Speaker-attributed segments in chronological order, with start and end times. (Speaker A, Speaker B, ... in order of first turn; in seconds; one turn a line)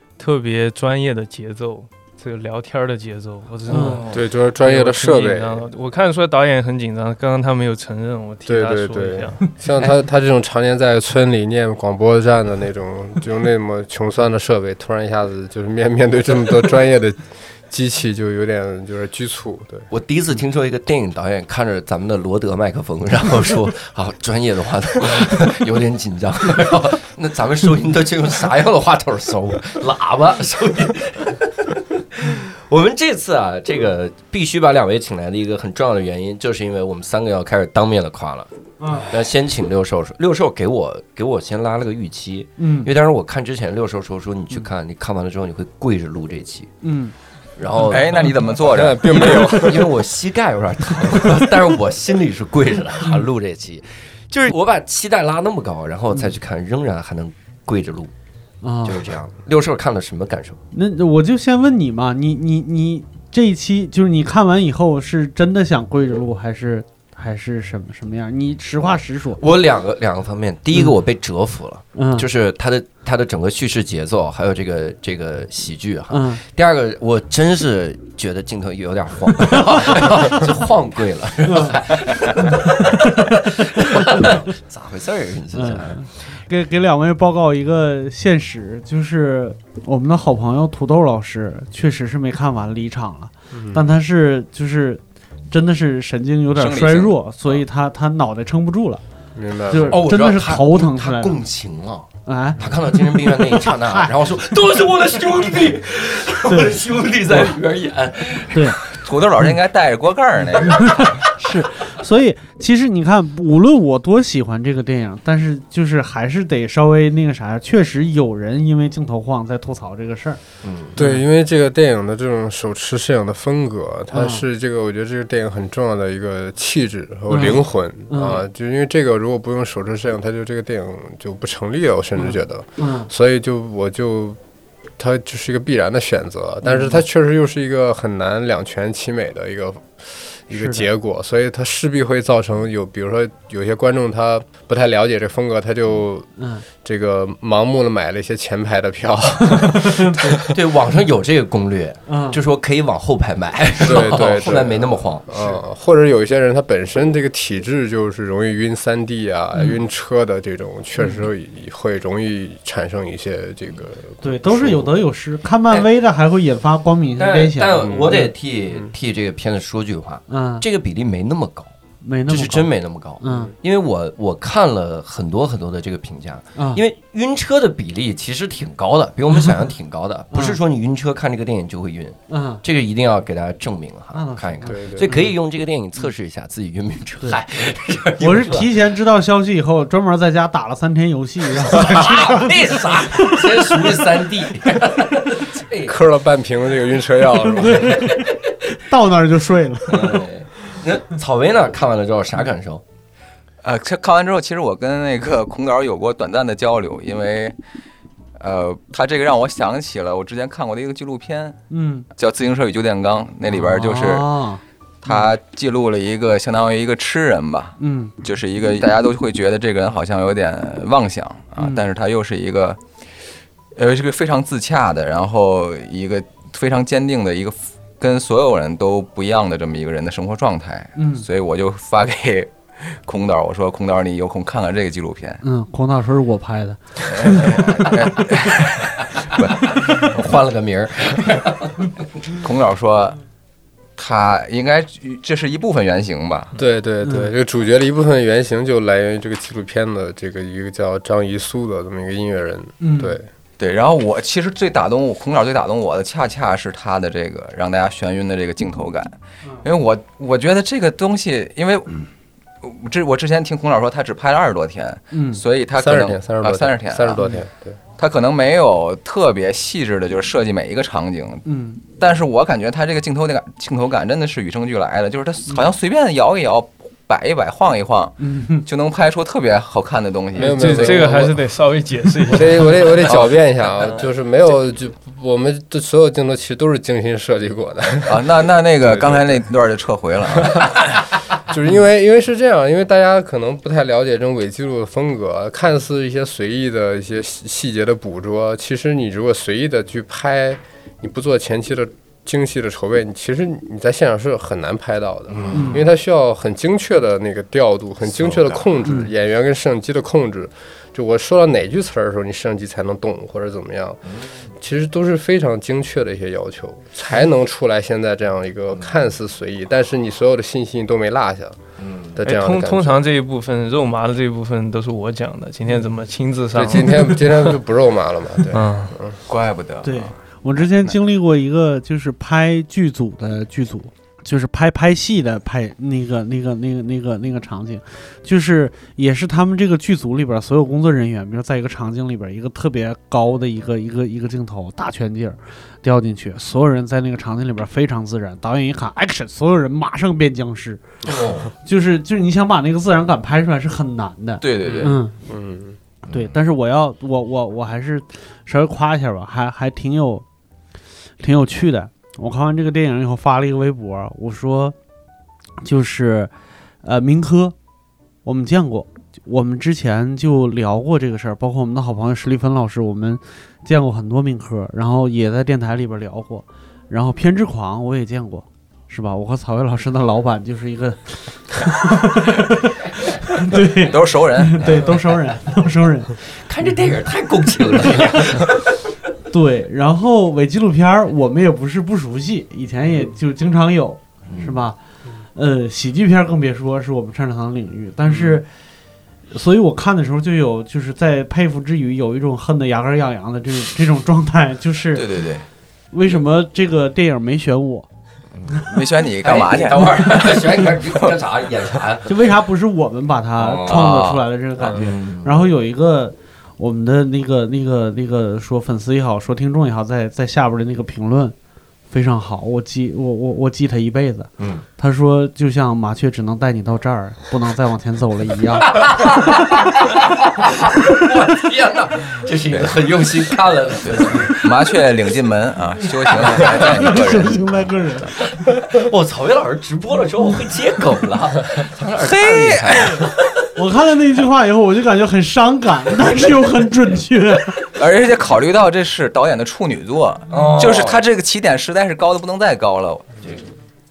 Speaker A: 0.2-9.5
Speaker B: 3.7-4.0
Speaker C: 3.7-4.2
Speaker D: 4.1-5.7
Speaker D: 8.4-19.9
Speaker C: 19.9-46.7
Speaker B: 38.8-39.1
Speaker B: 42.6-42.9
Speaker B: 46.8-47.1
Speaker C: 47.6-58.1
Speaker E: 47.8-49.6
Speaker D: 48.6-50.1
Speaker B: 58.6-59.0
Speaker C: 58.8-60.6
Speaker B: 60.7-69.4
Speaker C: 69.4-86.0
Speaker B: 71.9-72.3
Speaker B: 76.1-76.4
Speaker B: 81.4-81.8
Speaker B: 82.5-84.3
Speaker B: 85.5-99.0
Speaker D: 93.5-93.8
Speaker E: 96.5-97.1
Speaker D: 99.3-100.0
Speaker B: 99.7-101.3
Speaker C: 99.8-109.0
Speaker B: 102.2-104.2
Speaker B: 106.5-107.5
Speaker B: 108.5-108.8
Speaker E: 109.0-111.2
Speaker B: 110.5-120.4
Speaker C: 120.6-120.9
Speaker D: 120.9-134.4
Speaker B: 121.0-121.2
Speaker B: 124.1-124.4
Speaker B: 127.3-128.4
Speaker B: 132.2-133.1
Speaker D: 135.0-150.5
Speaker B: 136.6-137.0
Speaker B: 140.5-140.9
Speaker B: 146.4-146.6
Speaker B: 149.6-150.4
Speaker C: 150.5-155.4
Speaker B: 152.1-152.4
Speaker D: 153.8-164.9
Speaker B: 164.2-168.3
Speaker C: 167.2-171.7
Speaker D: 167.8-168.9
Speaker B: 170.3-170.7
Speaker B: 172.0-173.5
Speaker C: 172.3-188.8
Speaker B: 176.6-176.8
Speaker B: 180.3-180.6
Speaker B: 182.3-182.6
Speaker B: 184.1-185.3
Speaker D: 184.6-185.2
Speaker B: 188.2-194.2
Speaker C: 191.6-195.9
Speaker D: 195.8-198.2
Speaker B: 197.4-200.2
Speaker C: 197.8-198.3
Speaker C: 199.9-202.8
Speaker E: 203.6-207.5
Speaker E: 208.3-211.6
Speaker B: 211.7-212.0
Speaker E: 212.2-214.3
Speaker B: 213.5-215.3
Speaker E: 215.0-222.8
Speaker B: 217.8-218.2
Speaker B: 221.6-221.8
Speaker E: 223.8-235.4
Speaker B: 230.9-231.2
Speaker B: 235.4-238.1
Speaker E: 237.1-240.1
Speaker C: 239.1-242.0
Speaker E: 242.3-243.2
Speaker E: 244.0-246.5
Speaker D: 246.5-253.3
Speaker B: 247.0-247.3
Speaker B: 252.8-253.2
Speaker E: 253.6-262.1
Speaker E: 262.6-267.3
Speaker B: 265.1-265.4
Speaker D: 265.8-267.8
Speaker E: 268.0-271.4
Speaker B: 271.4-271.8
Speaker E: 271.9-281.1
Speaker B: 278.2-278.6
Speaker D: 280.3-281.4
Speaker A: 280.4-283.0
Speaker D: 282.2-289.4
Speaker E: 283.1-283.3
Speaker E: 288.1-291.0
Speaker D: 290.4-290.8
Speaker D: 291.4-321.6
Speaker C: 305.3-305.8
Speaker B: 305.5-305.8
Speaker B: 308.8-309.1
Speaker C: 314.1-314.5
Speaker C: 318.7-319.0
Speaker C: 321.8-322.2
Speaker D: 322.1-323.0
Speaker A: 322.2-327.5
Speaker D: 326.5-329.2
Speaker A: 328.5-328.9
Speaker E: 329.3-330.1
Speaker B: 329.8-350.9
Speaker C: 351.0-351.5
Speaker B: 351.6-355.1
Speaker E: 354.4-354.9
Speaker D: 355.3-355.8
Speaker B: 356.1-360.2
Speaker B: 361.2-364.7
Speaker B: 365.6-366.3
Speaker B: 366.8-367.5
Speaker B: 368.2-386.1
Speaker E: 383.6-384.8
Speaker C: 384.6-385.1
Speaker C: 386.3-388.7
Speaker B: 387.9-388.2
Speaker B: 389.3-394.8
Speaker C: 394.3-394.6
Speaker B: 395.3-398.5
Speaker B: 399.3-405.1
Speaker E: 404.9-405.4
Speaker B: 405.9-407.9
Speaker C: 408.3-408.7
Speaker E: 408.6-411.2
Speaker C: 409.2-412.2
Speaker B: 412.1-421.3
Speaker C: 413.4-413.9
Speaker E: 413.7-414.2
Speaker C: 414.6-415.4
Speaker B: 421.9-428.8
Speaker C: 424.4-424.6
Speaker C: 428.6-434.8
Speaker E: 432.5-432.7
Speaker E: 433.8-437.7
Speaker C: 436.1-437.0
Speaker B: 436.4-438.3
Speaker C: 438.2-443.5
Speaker E: 442.0-443.1
Speaker B: 443.6-447.6
Speaker E: 447.8-453.1
Speaker C: 450.3-451.0